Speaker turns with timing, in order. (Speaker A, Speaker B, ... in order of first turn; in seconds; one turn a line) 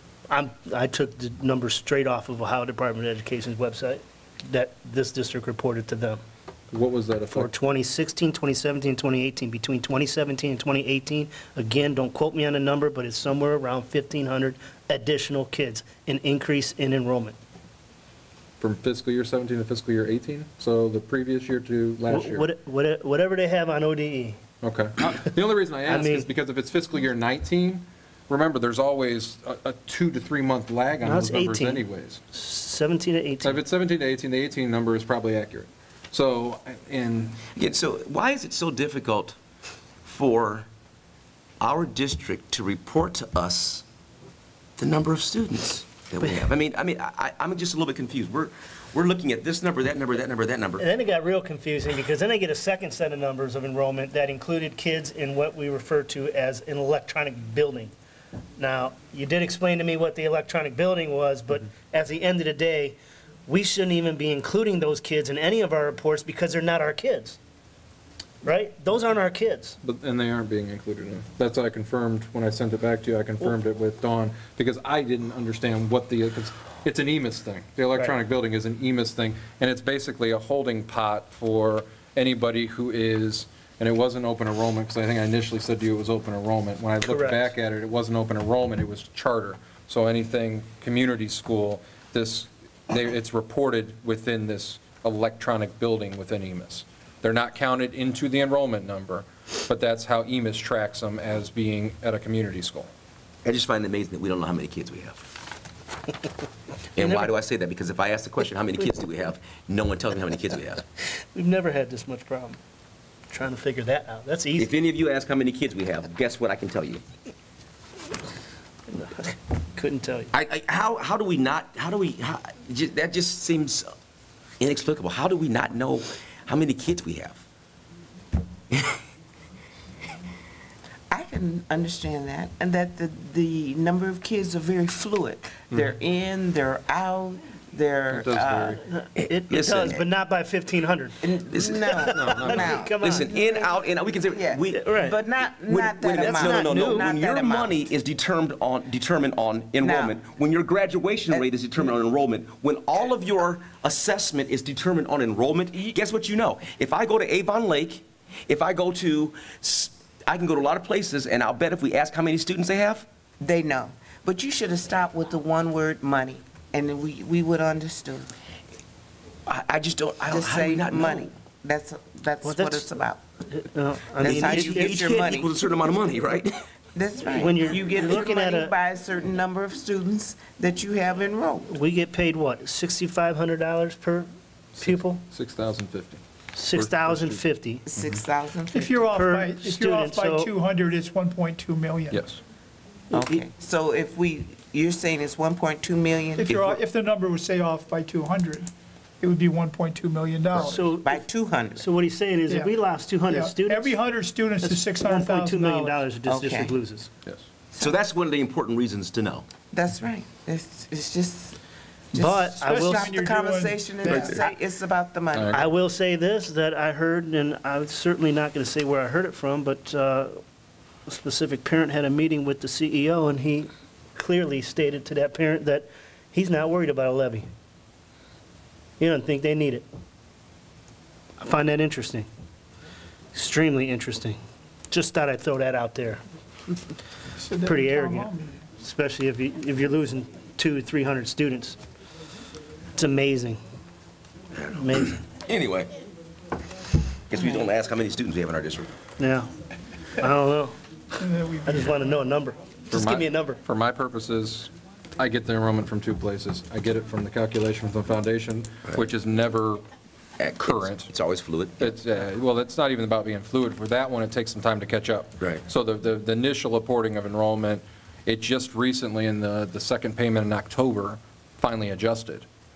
Speaker A: 0.3-6.2
Speaker B: 6.7-7.5
Speaker A: 7.3-17.4
Speaker B: 18.6-22.5
Speaker A: 22.1-24.4
Speaker B: 24.6-32.2
Speaker A: 25.9-26.3
Speaker A: 31.0-33.6
Speaker B: 33.4-37.4
Speaker C: 37.5-39.4
Speaker C: 40.0-40.6
Speaker C: 41.6-43.8
Speaker C: 44.8-50.9
Speaker A: 50.8-57.9
Speaker A: 58.6-67.4
Speaker A: 68.4-69.8
Speaker B: 69.8-102.9
Speaker A: 87.0-87.5
Speaker C: 103.4-105.3
Speaker C: 107.0-110.8
Speaker A: 111.1-112.6
Speaker A: 113.3-114.7
Speaker C: 114.5-117.0
Speaker A: 118.9-120.3
Speaker C: 120.3-123.9
Speaker C: 124.6-127.4
Speaker D: 131.1-138.8
Speaker B: 138.1-138.8
Speaker A: 138.8-141.2
Speaker C: 139.2-140.0
Speaker D: 141.2-147.8
Speaker C: 141.5-142.1
Speaker A: 141.8-143.3
Speaker B: 142.1-142.7
Speaker C: 142.9-144.9
Speaker A: 144.7-145.2
Speaker C: 145.6-163.1
Speaker A: 146.1-147.1
Speaker D: 149.8-150.1
Speaker D: 163.4-168.3
Speaker C: 169.4-171.3
Speaker D: 170.3-173.2
Speaker A: 172.4-172.9
Speaker A: 173.5-175.0
Speaker D: 174.2-175.5
Speaker C: 174.2-176.6
Speaker D: 176.9-181.8
Speaker A: 177.3-178.7
Speaker A: 181.7-184.3
Speaker B: 184.8-186.2
Speaker A: 184.8-185.2
Speaker A: 186.6-187.8
Speaker B: 186.7-187.4
Speaker D: 187.9-189.1
Speaker B: 187.9-188.2
Speaker E: 188.7-192.2
Speaker A: 189.1-190.5
Speaker B: 192.1-192.4
Speaker D: 193.1-196.7
Speaker E: 196.4-198.7
Speaker E: 199.2-200.9
Speaker A: 200.6-201.2
Speaker D: 200.8-201.8
Speaker A: 201.8-204.0
Speaker E: 203.3-206.1
Speaker A: 204.6-207.1
Speaker D: 206.2-206.8
Speaker D: 207.7-208.0
Speaker C: 207.8-209.4
Speaker D: 209.7-211.6
Speaker D: 212.1-215.7
Speaker A: 212.1-213.1
Speaker E: 212.4-214.5
Speaker B: 215.3-215.6
Speaker A: 215.5-220.4
Speaker A: 221.1-227.5
Speaker A: 229.0-229.8
Speaker A: 231.4-232.3
Speaker A: 233.3-234.4
Speaker A: 234.9-236.2
Speaker E: 237.4-238.5
Speaker A: 237.6-241.8
Speaker A: 242.9-243.6
Speaker A: 244.7-245.2
Speaker C: 245.0-245.9
Speaker C: 247.3-248.9
Speaker A: 249.2-249.5
Speaker A: 250.2-250.8
Speaker E: 251.2-251.8
Speaker A: 251.7-253.6
Speaker B: 252.9-259.8
Speaker C: 260.4-261.9
Speaker B: 260.6-261.1
Speaker B: 261.8-272.4